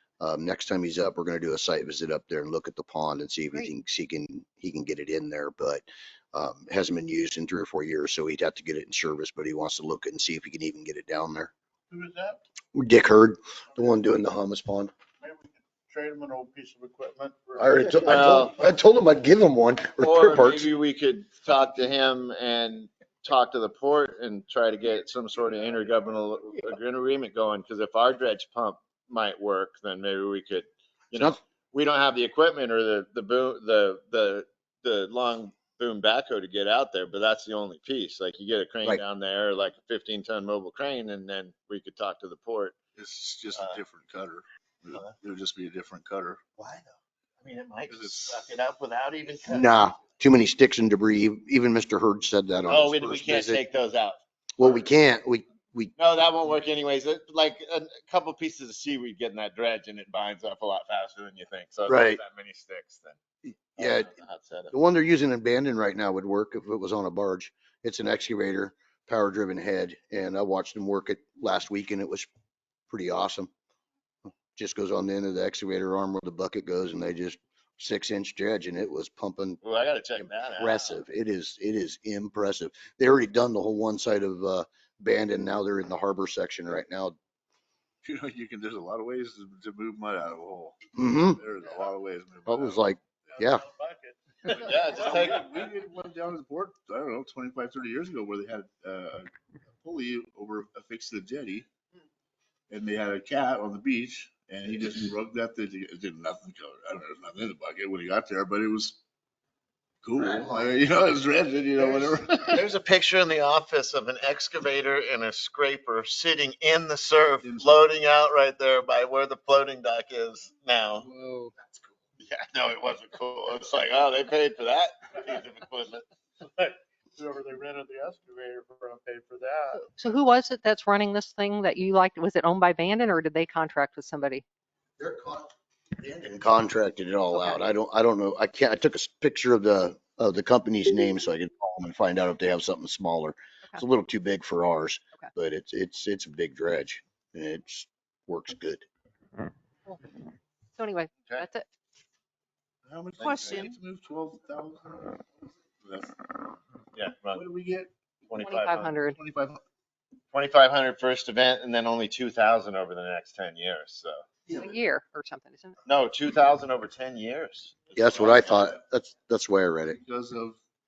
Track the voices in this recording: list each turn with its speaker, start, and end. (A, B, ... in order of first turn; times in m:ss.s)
0:00.2-0:11.5 A
0:12.7-0:14.9 A
0:17.2-0:17.5 B
0:17.6-0:20.7 A
0:18.0-0:18.5 C
0:20.0-0:42.8 C
0:42.9-0:46.4 D
0:46.6-0:49.8 C
0:47.9-0:48.4 D
0:49.5-0:53.6 A
0:52.7-0:54.2 C
0:54.6-0:55.9 A
0:56.0-1:03.2 C
1:01.9-1:02.2 A
1:03.5-1:04.1 A
1:03.8-1:04.7 C
1:04.7-1:12.3 A
1:12.9-1:13.5 A
1:14.5-1:19.6 A
1:19.6-1:21.0 C
1:20.2-1:27.2 A
1:28.0-1:33.4 D
1:30.9-1:31.4 A
1:32.5-1:33.6 A
1:33.6-1:34.0 B
1:34.5-1:41.7 D
1:34.5-1:35.6 C
1:42.7-1:49.0 D
1:50.0-1:52.7 D
1:52.0-2:01.1 C
1:57.4-1:57.8 D
2:02.2-2:06.8 C
2:07.4-2:07.7 B
2:08.4-2:09.4 B
2:09.9-2:14.4 E
2:15.0-2:28.8 A
2:30.8-2:31.6 E
2:32.8-2:35.2 D
2:33.2-2:33.6 C
2:35.8-2:36.3 D
2:36.9-2:37.4 C
2:37.3-2:37.9 D
2:38.3-2:39.0 C
2:38.4-2:39.2 E
2:39.0-2:39.6 D
2:40.3-2:44.2 C
2:44.6-2:45.8 E
2:45.8-2:48.7 C
2:47.9-2:50.0 A
2:49.9-2:50.6 D